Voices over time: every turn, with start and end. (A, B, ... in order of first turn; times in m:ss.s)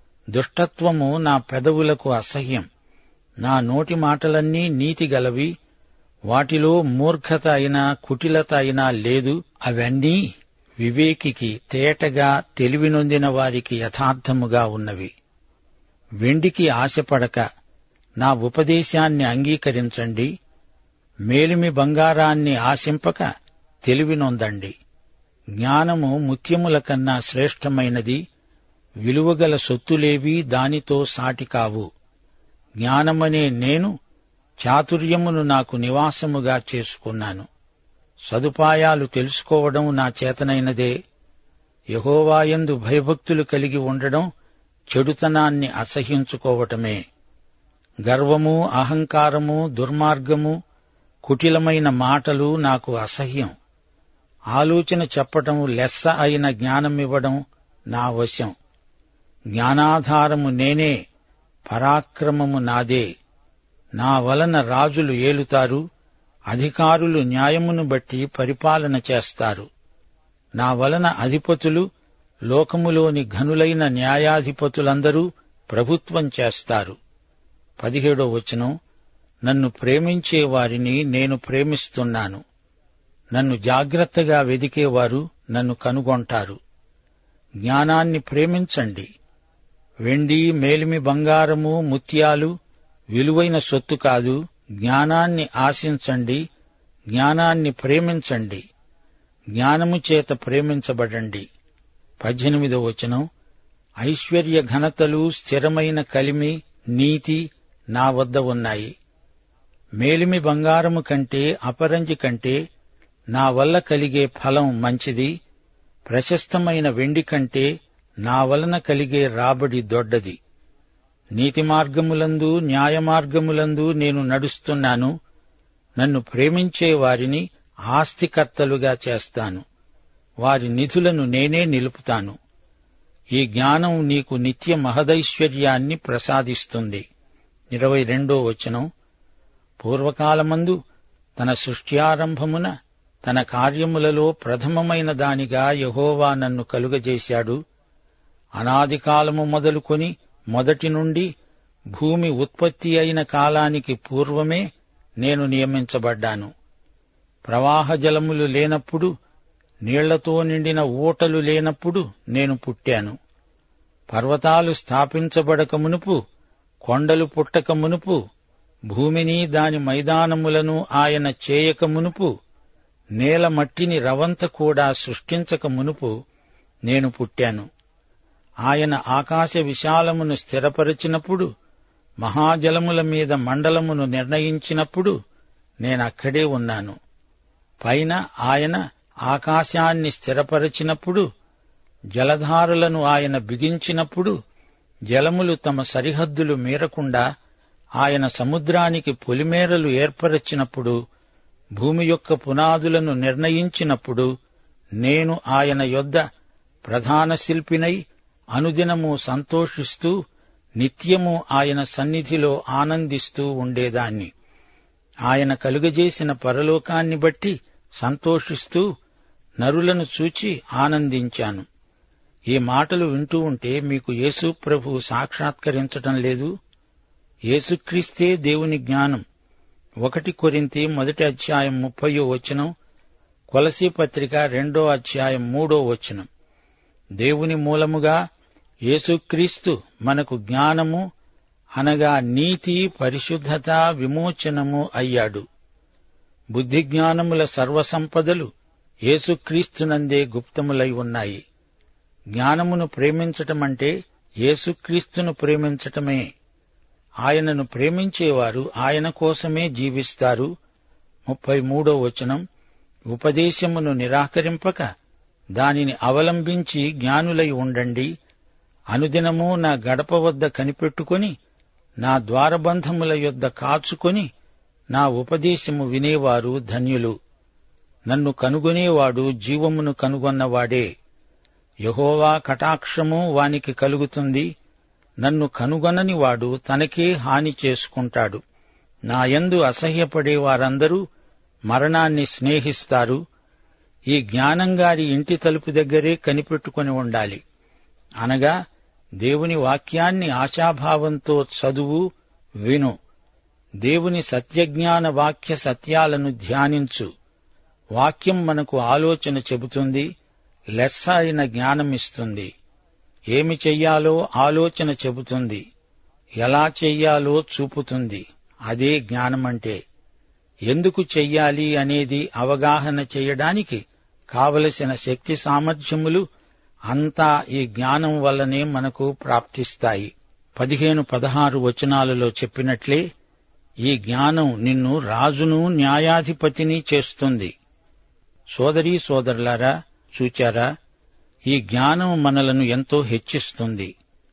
0:00.3-0:02.6 A
0:03.4-0:05.5 A
0:06.3-0:10.2 A
0:10.8-0:15.1 A
0:16.2-0:17.4 A
0:18.2-0:20.3 A
0:21.3-0:23.3 A
0:23.8-0:24.7 A
0:25.6-0:28.2 A
0:29.0-0:31.8 A
0:32.8-0:33.9 A
0:34.6-0:37.5 A
0:38.3-0:40.9 A
0:42.0-0:44.3 A
0:44.9-0:47.0 A
0:48.0-0:50.6 A
0:51.2-0:53.5 A
0:54.5-0:57.4 A
0:57.9-0:58.5 A
0:59.5-1:01.0 A
1:01.6-1:03.1 A
1:04.0-1:05.8 A
1:06.5-1:09.6 A
1:10.6-1:11.8 A
1:12.5-1:17.0 A
1:17.8-1:18.7 A
1:19.4-1:22.4 A
1:23.3-1:26.6 A
1:27.6-1:29.1 A
1:30.0-1:32.5 A
1:33.1-1:36.4 A
1:37.1-1:38.6 A
1:39.5-1:41.4 A
1:42.2-1:43.2 A
1:44.0-1:48.9 A
1:50.0-1:52.6 A
1:53.3-1:55.3 A
1:56.1-1:57.7 A
1:58.2-2:00.4 A
2:01.4-2:05.1 A
2:06.0-2:09.6 A
2:10.4-2:12.3 A
2:13.4-2:17.0 A
2:17.7-2:18.9 A
2:19.8-2:20.8 A
2:21.4-2:22.7 A
2:23.2-2:27.6 A
2:28.6-2:31.3 A
2:31.9-2:34.6 A
2:35.2-2:36.5 A
2:37.5-2:39.1 A
2:39.8-2:43.2 A
2:44.1-2:46.2 A
2:46.8-2:48.2 A
2:48.9-2:52.3 A
2:53.2-2:56.1 A
2:56.8-2:57.6 A
2:58.6-3:01.5 A
3:02.2-3:05.1 A
3:05.8-3:07.0 A
3:07.8-3:11.2 A
3:12.1-3:14.3 A
3:15.1-3:17.2 A
3:18.0-3:21.0 A
3:21.8-3:24.3 A
3:25.0-3:26.2 A
3:26.8-3:28.0 A
3:28.5-3:30.1 A
3:30.8-3:34.3 A
3:35.3-3:38.8 A
3:39.6-3:41.6 A
3:42.5-3:46.5 A
3:47.5-3:49.2 A
3:50.0-3:52.7 A
3:53.5-3:56.3 A
3:57.2-3:58.2 A
3:58.9-4:01.0 A
4:01.8-4:05.4 A
4:06.5-4:08.5 A
4:09.1-4:11.4 A
4:12.4-4:13.9 A
4:14.4-4:16.2 A
4:17.2-4:20.5 A
4:21.2-4:22.4 A
4:23.1-4:24.8 A
4:25.6-4:28.1 A
4:28.9-4:31.3 A
4:32.0-4:34.3 A
4:34.9-4:37.1 A
4:38.1-4:40.8 A
4:41.8-4:44.5 A
4:45.2-4:48.4 A
4:49.1-4:51.0 A
4:51.7-4:53.2 A
4:54.1-4:57.4 A
4:58.2-4:58.5 A
4:59.2-5:02.0 A
5:02.6-5:02.9 A
5:03.8-5:07.1 A
5:08.0-5:10.1 A
5:10.8-5:12.5 A
5:13.3-5:15.6 A
5:16.4-5:19.8 A
5:20.7-5:23.8 A
5:24.3-5:26.2 A
5:26.9-5:33.0 A
5:33.8-5:37.5 A
5:38.5-5:40.7 A
5:41.5-5:43.9 A